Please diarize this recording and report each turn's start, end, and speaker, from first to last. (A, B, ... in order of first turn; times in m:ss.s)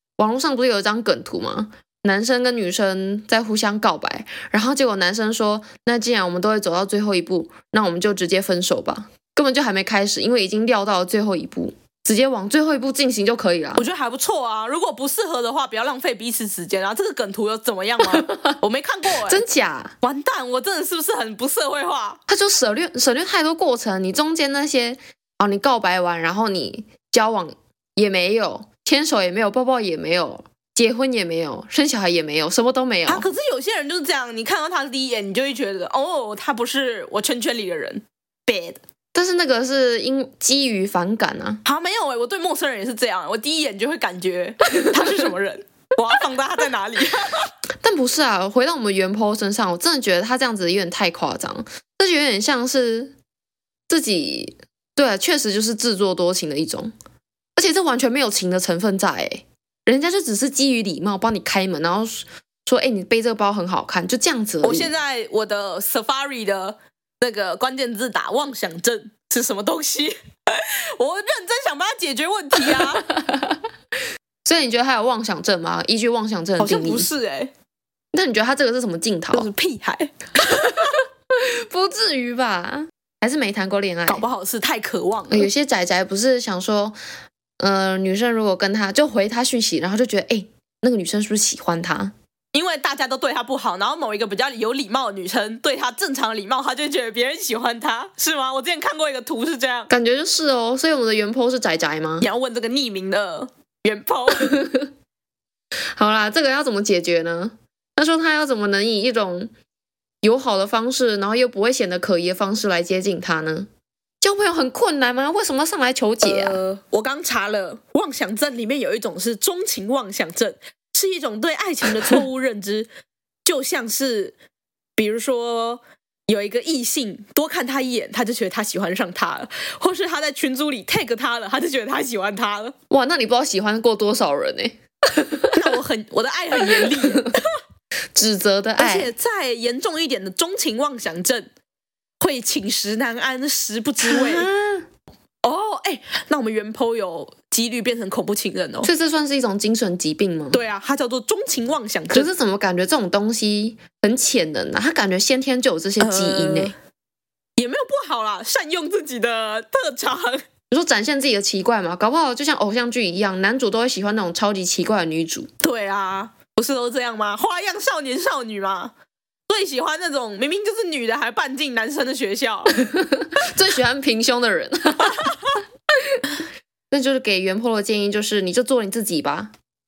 0:00.2-0:13.9 A
0:13.8-0:19.4 B
0:18.0-0:18.6 A
0:19.2-0:20.0 A
0:20.0-0:22.2 B
0:22.3-0:33.3 A
0:33.1-0:38.8 B
0:39.1-0:41.6 A
0:41.6-0:47.5 B
0:44.8-0:45.1 A
0:47.8-0:53.2 A
0:53.9-0:56.9 A
0:57.6-1:04.9 A
1:04.6-1:13.0 B
1:13.1-1:13.6 A
1:14.4-1:17.1 A
1:16.6-1:17.5 B
1:18.1-1:19.5 A
1:19.3-1:20.9 B
1:20.6-1:24.2 A
1:24.1-1:25.5 B
1:25.3-1:27.0 A
1:27.6-1:32.1 A
1:32.5-1:39.9 B
1:39.9-1:42.3 A
1:42.2-1:44.5 B
1:44.4-1:44.9 A
1:46.0-1:49.5 A
1:50.2-1:53.7 A
1:54.2-1:56.6 A
1:56.2-2:02.9 B
2:03.4-2:04.4 B
2:05.0-2:12.8 B
2:12.9-2:15.7 A
2:15.5-2:17.5 B
2:16.7-2:17.3 A
2:18.2-2:19.1 A
2:18.8-2:21.5 B
2:22.2-2:24.5 B
2:24.0-2:24.9 A
2:25.4-2:28.9 B
2:28.8-2:30.6 A
2:30.5-2:32.3 B
2:32.1-2:36.7 A
2:36.0-2:36.8 B
2:37.6-2:40.4 B
2:40.7-2:45.5 A
2:45.6-2:48.9 B
2:49.5-2:52.8 B
2:52.8-2:55.4 A
2:56.0-2:56.3 A
2:56.9-2:59.5 A